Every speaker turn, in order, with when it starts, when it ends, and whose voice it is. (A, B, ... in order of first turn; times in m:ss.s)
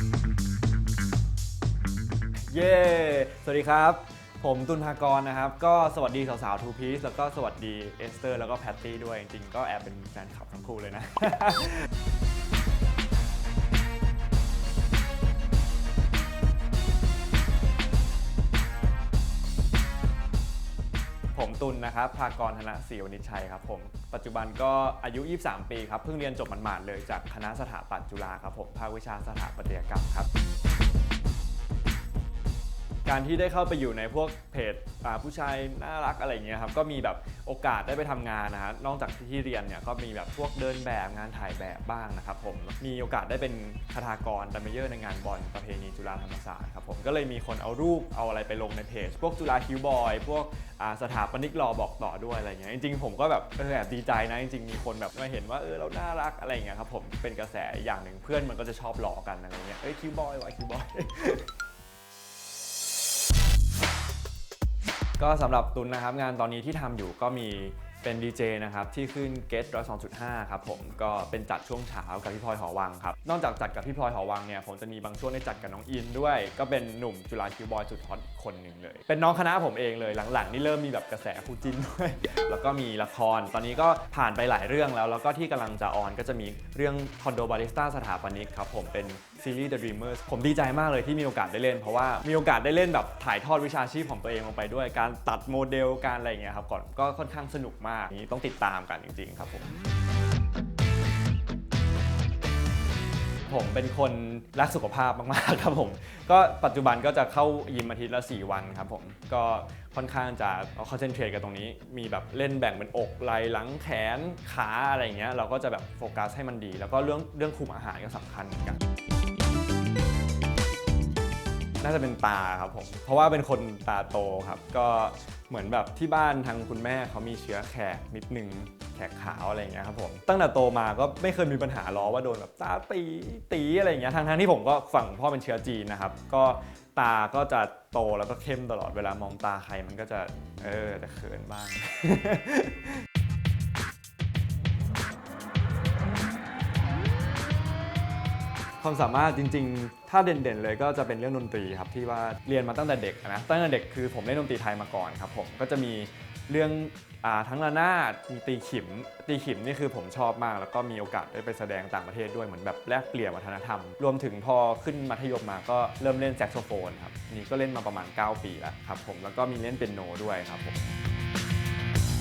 0:02.5-0:11.9 A
0:21.3-0:30.3 A
0:33.0-1:01.5 A
1:05.2-1:39.7 A
1:43.5-1:58.8 A
2:01.8-2:23.0 A
2:28.8-2:50.8 A